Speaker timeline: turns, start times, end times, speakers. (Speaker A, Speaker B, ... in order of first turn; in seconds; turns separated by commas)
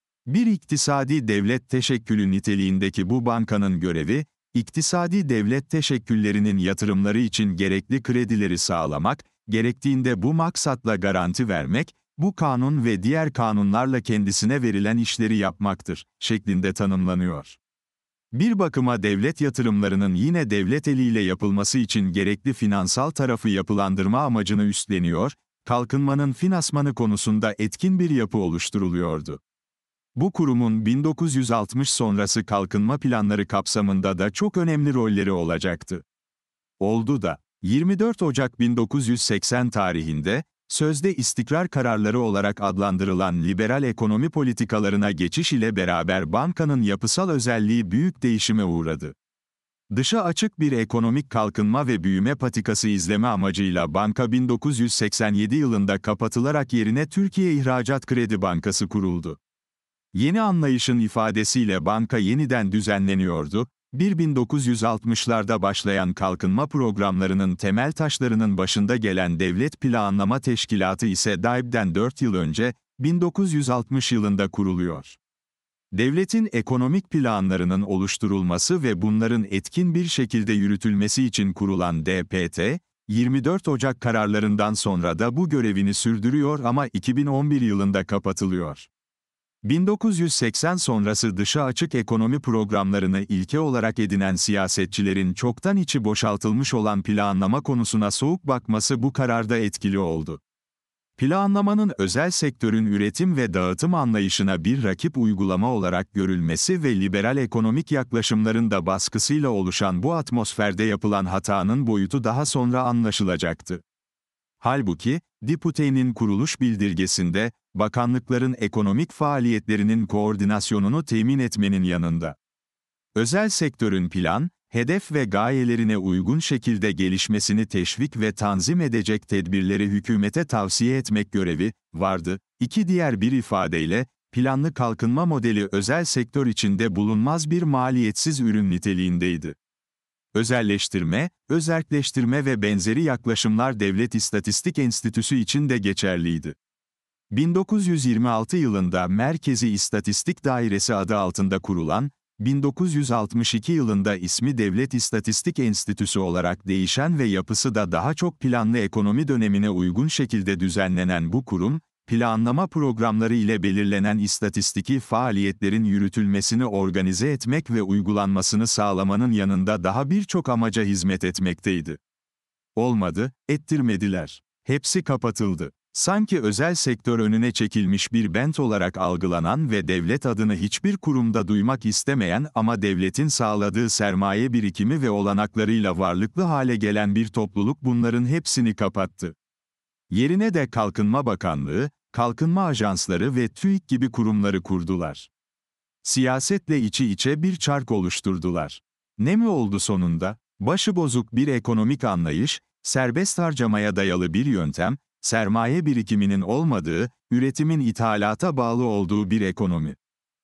Speaker A: 0.3-17.6, Speaker A: 18.3-29.4, Speaker A: 30.1-36.0, Speaker A: 36.8-49.1, Speaker A: 49.9-59.4, Speaker A: 60.1-75.2, Speaker A: 75.9-88.9, Speaker A: 89.6-100.4, Speaker A: 101.2-113.8, Speaker A: 114.6-122.4, Speaker A: 123.1-139.6, Speaker A: 140.3-146.6, Speaker A: 147.3-172.0, Speaker A: 172.8-189.3, Speaker A: 190.1-195.3, Speaker A: 196.0-210.0